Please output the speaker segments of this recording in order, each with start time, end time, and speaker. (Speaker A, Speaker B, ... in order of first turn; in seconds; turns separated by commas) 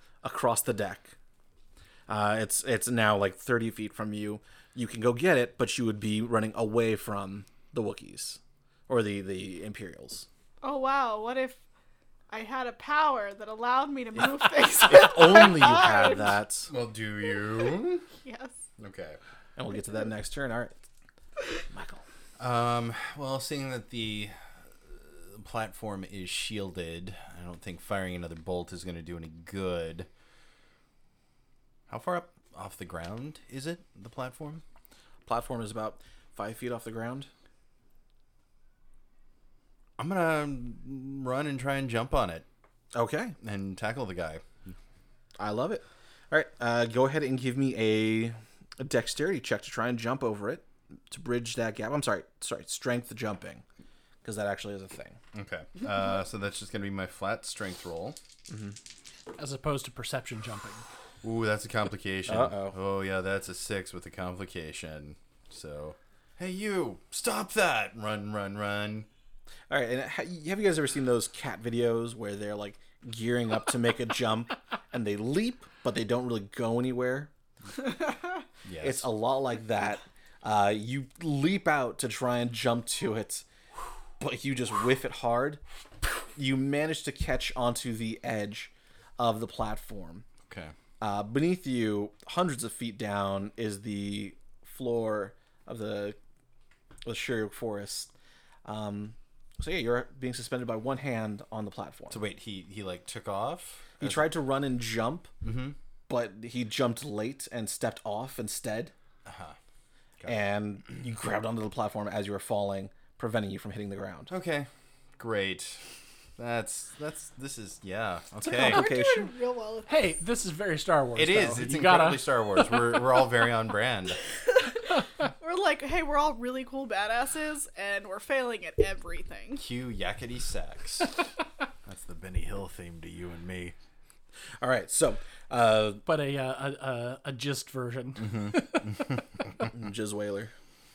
Speaker A: 0.2-1.1, Speaker A: 2.1-10.3, Speaker B: 10.6-11.6, Speaker B: 12.3-16.4, Speaker A: 14.9-16.7, Speaker C: 16.7-18.1, Speaker B: 18.2-18.6, Speaker C: 18.8-19.2, Speaker A: 19.6-20.9, Speaker A: 21.7-22.0, Speaker C: 22.4-30.1, Speaker C: 31.9-34.6, Speaker A: 35.3-37.3, Speaker C: 40.0-42.5, Speaker A: 42.9-43.4, Speaker C: 43.4-44.8, Speaker A: 45.4-53.6, Speaker A: 54.2-55.2, Speaker C: 55.3-58.2, Speaker A: 58.5-58.8, Speaker D: 59.4-60.8, Speaker C: 61.2-69.1, Speaker A: 62.3-62.8, Speaker A: 69.7-77.3, Speaker C: 78.6-79.1, Speaker A: 78.8-83.4, Speaker A: 84.2-85.6, Speaker A: 86.4-90.2, Speaker C: 90.5-90.7, Speaker A: 91.0-96.2, Speaker A: 97.0-98.1, Speaker A: 98.6-102.2, Speaker C: 102.1-104.3, Speaker A: 104.0-105.3, Speaker C: 105.4-105.8, Speaker A: 106.1-108.9, Speaker C: 109.2-109.6, Speaker A: 110.2-114.3, Speaker C: 114.3-118.9, Speaker A: 118.5-119.3, Speaker B: 118.5-120.0, Speaker D: 119.9-122.9, Speaker C: 121.1-124.2, Speaker B: 124.5-129.6, Speaker C: 129.6-131.2, Speaker C: 131.9-133.8, Speaker A: 134.6-136.0, Speaker D: 136.1-138.9, Speaker C: 138.2-138.5, Speaker A: 139.6-140.5